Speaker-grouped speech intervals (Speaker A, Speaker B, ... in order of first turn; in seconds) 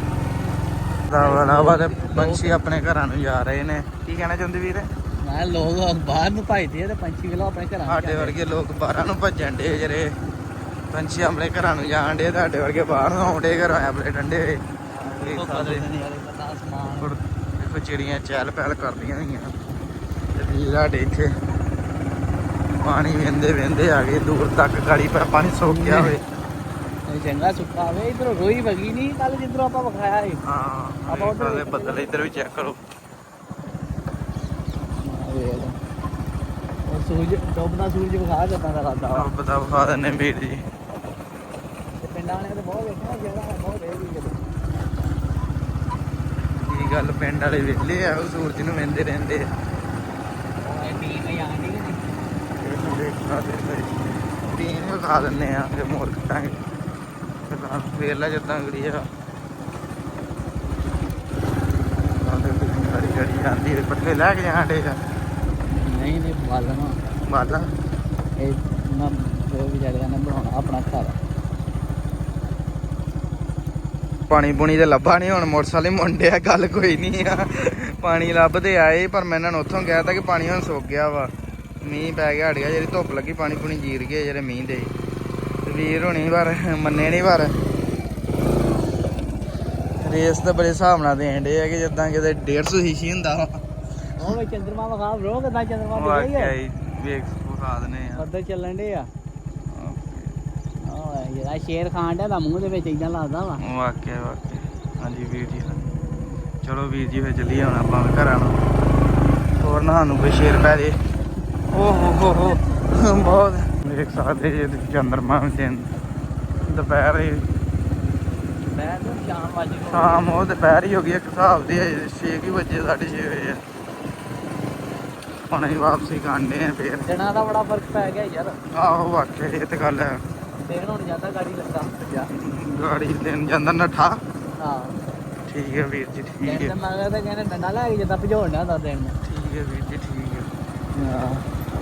Speaker A: 1.1-4.9, 7.9-10.1, 10.9-14.6, 15.2-15.9, 17.0-19.5, 20.4-21.3, 22.7-26.2, 30.4-32.8, 39.1-40.6, 46.6-49.5, 52.6-56.6, 57.5-59.0, 62.1-65.0, 67.3-67.7, 74.3-81.3, 81.8-84.9, 85.7-87.5, 90.0-93.5, 95.9-98.2, 99.7-100.4, 103.6-105.8, 106.6-108.6, 109.6-110.9, 111.7-115.9, 116.7-117.4, 119.9-123.6, 125.5-127.1, 128.7-130.2, 132.3-134.2, 135.5-136.7, 139.2-140.5
Speaker B: 1.1-2.6, 5.2-8.3, 14.9-17.1, 25.7-26.1, 27.1-30.4, 31.1-32.0, 35.0-35.8, 36.9-39.3, 42.0-44.4, 50.6-52.1, 65.7-67.0, 68.4-71.2, 94.2-96.5, 98.1-99.1, 100.8-103.6, 118.6-120.3, 127.0-128.6, 130.6-132.3, 134.6-134.9, 136.4-139.2, 140.9-141.4